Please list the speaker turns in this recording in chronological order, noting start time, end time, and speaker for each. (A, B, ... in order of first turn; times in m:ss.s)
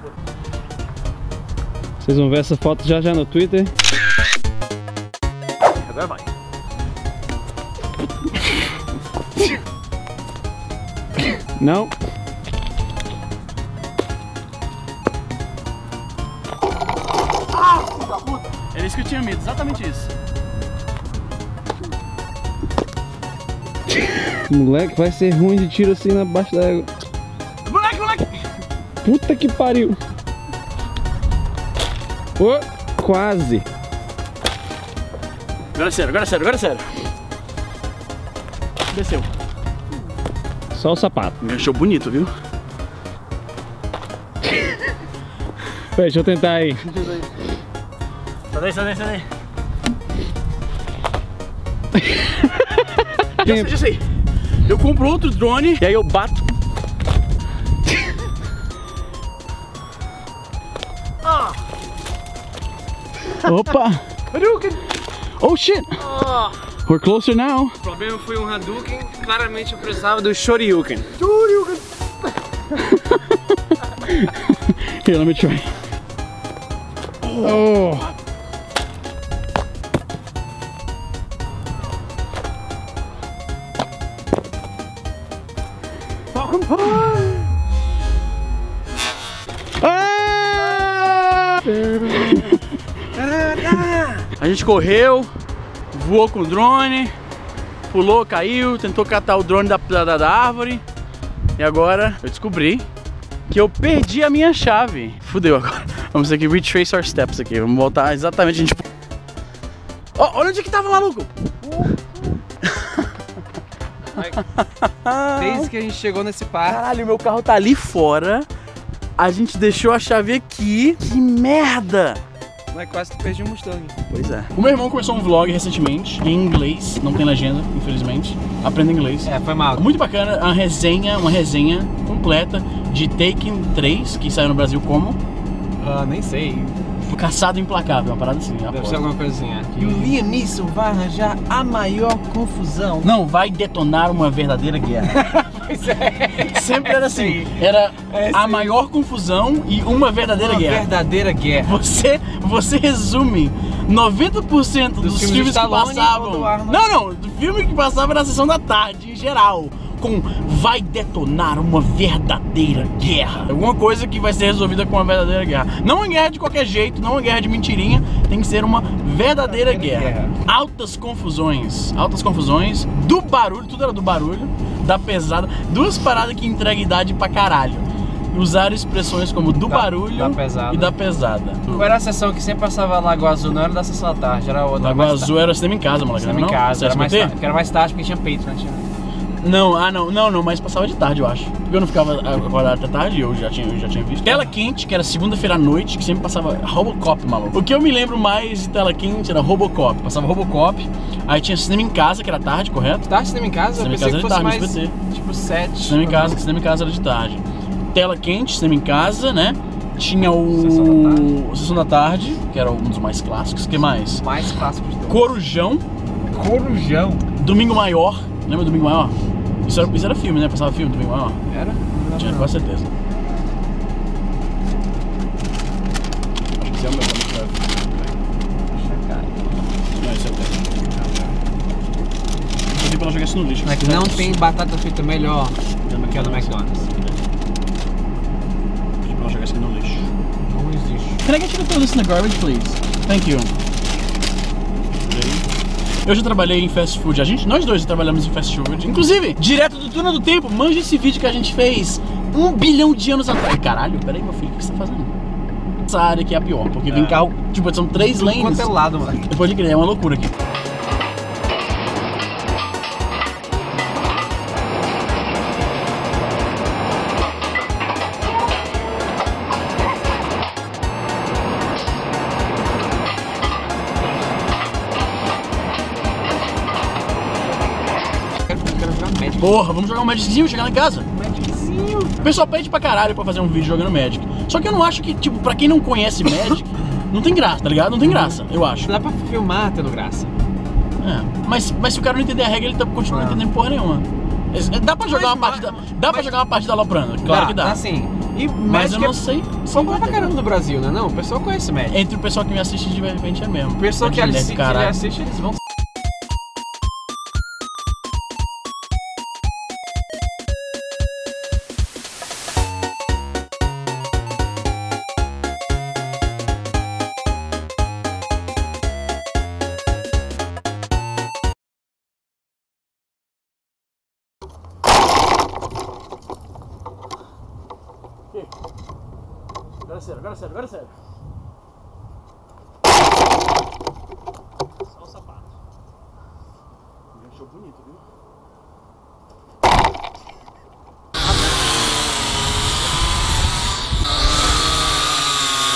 0:02.0-0:03.7 A
0:05.8-0:06.2 B
0:11.6-0:11.9 A
0:17.5-0:20.1 B
0:24.5-0:26.8 C
0:24.6-0:26.8 A
0:27.6-0:28.4 B
0:29.0-0:30.0 A
0:32.4-0:33.6 C
0:35.7-0:36.8 B
0:38.9-0:39.3 B
0:40.7-0:41.3 A
0:41.4-0:42.3 B
0:45.9-0:46.8 A
0:46.9-0:47.2 B
0:48.5-0:49.3 B
0:53.4-0:54.0 B
0:54.6-0:56.4 B
1:03.4-1:04.0 B
1:04.3-1:04.7 C
1:05.4-1:05.9 B
1:06.1-1:06.5 C
1:06.8-1:07.7 B
1:07.8-1:11.1 C
1:11.2-1:11.8 B
1:12.7-1:15.8 B
1:17.4-1:18.1 A
1:29.8-1:31.3 B
1:32.1-1:32.4 B
1:33.1-1:34.3 C
1:34.4-1:35.3 B
1:35.9-1:37.1 B
1:37.9-1:40.8 B
1:41.6-1:42.8 B
1:43.5-1:48.8 B
1:50.2-1:51.3 B
1:52.6-1:53.1 B
1:54.1-1:54.4 C
1:54.6-1:55.7 B
1:55.4-1:56.8 C
1:56.6-1:58.5 B
1:59.2-2:02.2 B
2:02.7-2:04.0 C
2:04.1-2:15.2 B
2:09.2-2:09.9 C
2:15.8-2:16.9 C
2:17.1-2:19.0 B
2:18.7-2:23.1 C
2:19.8-2:20.2 B
2:23.0-2:25.3 B
2:25.1-2:28.7 C
2:26.3-2:30.9 B
2:30.3-2:31.8 C
2:31.6-3:01.9 B
2:35.0-2:36.8 C
2:42.9-2:43.3 C
2:49.4-2:50.4 C
2:59.7-3:01.0 C
3:01.7-3:05.3 C
3:04.8-3:07.3 B
3:06.1-3:08.9 C
3:09.4-3:23.1 B
3:14.3-3:14.5 C
3:23.0-3:26.4 C
3:23.7-3:24.9 B
3:25.8-3:34.2 B
3:30.5-3:31.3 C
3:34.1-3:35.3 C
3:35.1-3:35.8 B
3:36.3-3:37.2 C
3:37.4-3:41.4 B
3:41.5-3:42.5 C
3:42.1-3:42.9 B
3:46.6-3:48.1 B
3:48.7-3:49.5 C
3:49.9-3:50.6 B
3:50.9-3:51.3 C
3:52.7-3:54.4 B
3:53.6-3:56.8 C
3:55.8-3:57.2 B
3:59.0-4:00.1 B
4:00.4-4:01.2 C
4:01.2-4:03.5 B
4:05.0-4:05.4 B
4:06.0-4:15.1 B
4:15.8-4:20.3 B
4:16.9-4:17.3 C
4:17.9-4:19.3 C
4:38.4-4:39.6 C
4:39.4-4:41.1 B
4:41.1-4:42.3 C
4:42.2-4:48.9 B
4:48.0-4:50.3 C
4:51.0-4:57.8 B
4:53.0-4:53.4 C
4:55.0-4:56.3 C
4:57.2-5:02.0 C
4:58.6-5:00.4 B
5:01.9-5:05.0 B
5:03.8-5:05.5 C
5:29.8-5:30.9 B
5:35.1-5:35.4 C
5:37.1-5:38.0 B